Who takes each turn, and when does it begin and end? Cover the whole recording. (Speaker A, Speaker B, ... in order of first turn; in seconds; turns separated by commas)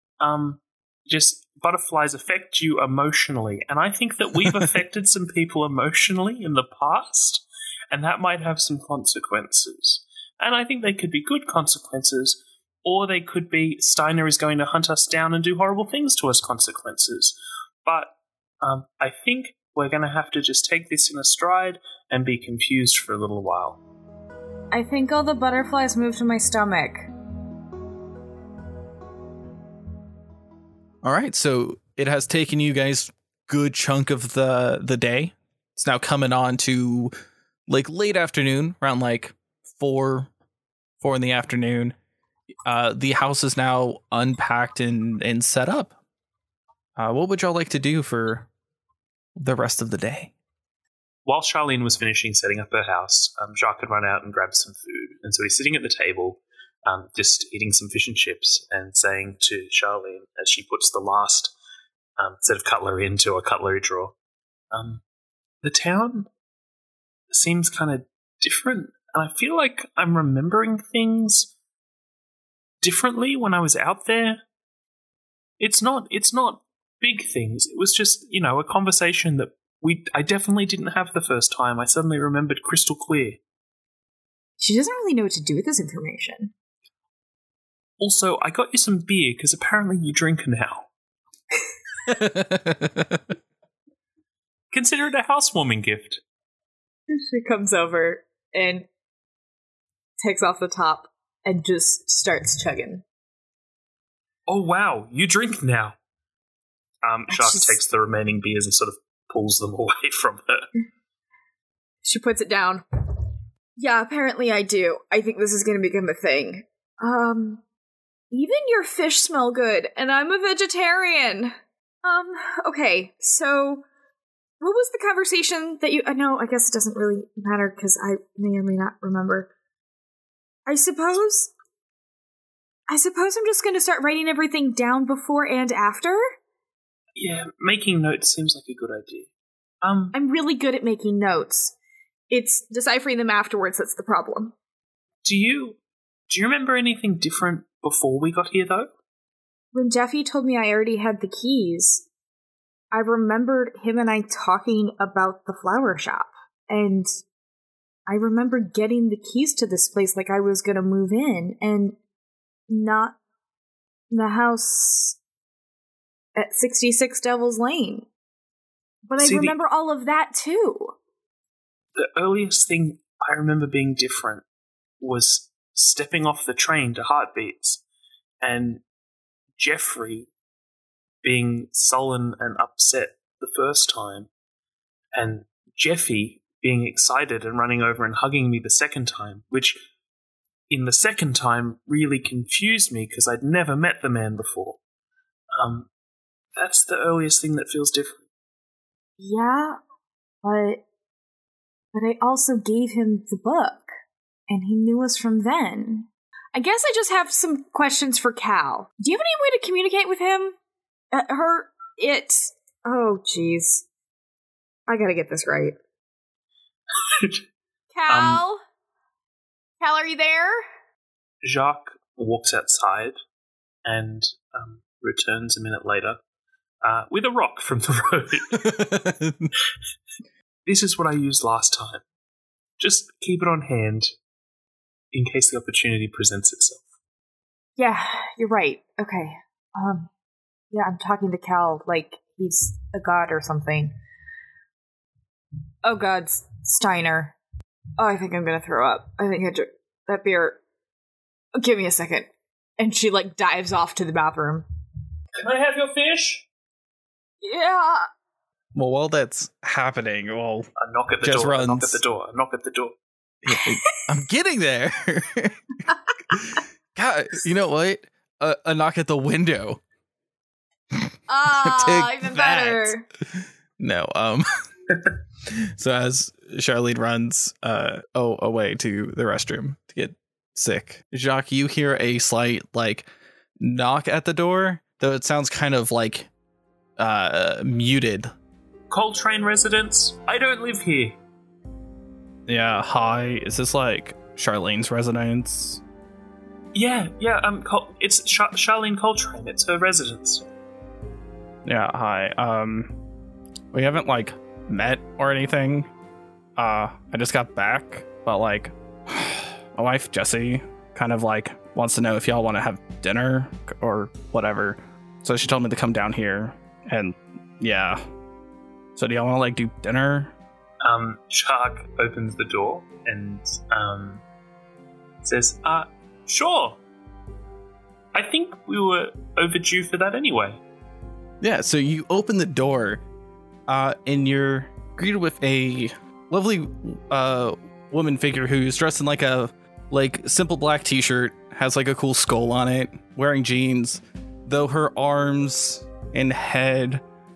Speaker A: 0.2-23.8, Speaker B: 24.7-27.1, Speaker C: 31.0-37.1, Speaker C: 37.7-40.3, Speaker C: 41.0-41.9, Speaker C: 42.7-46.0, Speaker C: 47.0-48.5, Speaker C: 49.4-50.3, Speaker A: 51.2-61.5, Speaker A: 62.2-64.1, Speaker A: 64.7-65.0, Speaker A: 65.6-66.3, Speaker A: 67.3-71.5, Speaker A: 72.8-74.4, Speaker A: 75.6-83.4, Speaker B: 84.6-86.5, Speaker A: 88.0-90.9, Speaker C: 92.1-93.3, Speaker A: 94.7-96.2, Speaker B: 97.1-98.9, Speaker B: 100.2-103.0, Speaker A: 104.5-106.0, Speaker A: 107.0-110.7, Speaker B: 107.3-107.7, Speaker B: 112.0-112.8, Speaker B: 113.8-117.6, Speaker B: 118.3-123.8, Speaker B: 124.6-129.5, Speaker B: 130.7-131.5, Speaker B: 132.9-136.3, Speaker A: 137.2-139.3, Speaker A: 139.8-140.2, Speaker B: 140.1-141.7, Speaker B: 142.3-144.5, Speaker A: 145.2-148.9, Speaker B: 149.7-152.0, Speaker B: 152.9-157.1, Speaker B: 158.1-162.0, Speaker B: 162.7-163.2, Speaker B: 164.1-165.2, Speaker B: 166.4-168.1, Speaker B: 169.0-170.9, Speaker A: 169.2-169.6, Speaker A: 171.9-174.4, Speaker A: 175.0-177.8, Speaker A: 178.4-178.8, Speaker A: 179.6-180.3, Speaker A: 181.2-184.3, Speaker A: 185.1-189.8, Speaker A: 190.7-194.8, Speaker A: 195.6-195.9, Speaker A: 196.6-198.2, Speaker B: 199.2-199.8, Speaker B: 200.4-200.8, Speaker B: 201.9-203.9, Speaker B: 204.5-210.5, Speaker B: 211.1-213.8, Speaker B: 214.9-215.8, Speaker A: 217.0-217.4, Speaker B: 217.9-218.6, Speaker A: 218.1-218.4, Speaker B: 219.8-220.6, Speaker A: 221.4-223.2, Speaker A: 223.8-226.2, Speaker A: 226.8-228.7, Speaker C: 228.5-229.5, Speaker A: 230.7-232.0, Speaker A: 232.8-234.1, Speaker A: 235.1-236.9, Speaker B: 237.8-240.1, Speaker B: 240.7-243.9, Speaker B: 245.8-247.3, Speaker B: 248.0-250.6, Speaker B: 251.6-254.7, Speaker A: 255.4-256.5, Speaker B: 257.4-258.1, Speaker C: 258.8-260.7, Speaker A: 260.8-263.0, Speaker C: 261.2-262.0, Speaker C: 263.4-265.8, Speaker C: 266.3-269.8, Speaker C: 270.9-274.5, Speaker B: 271.3-273.0, Speaker C: 275.5-283.1, Speaker C: 283.6-286.3, Speaker C: 287.0-288.3, Speaker A: 288.9-291.2, Speaker C: 292.5-295.8, Speaker A: 296.7-300.4, Speaker C: 301.6-303.0, Speaker C: 303.7-305.9, Speaker C: 306.6-318.0, Speaker C: 319.0-320.3, Speaker A: 320.8-324.2, Speaker A: 325.2-326.8, Speaker A: 328.1-330.6, Speaker C: 331.4-333.0, Speaker C: 333.7-347.0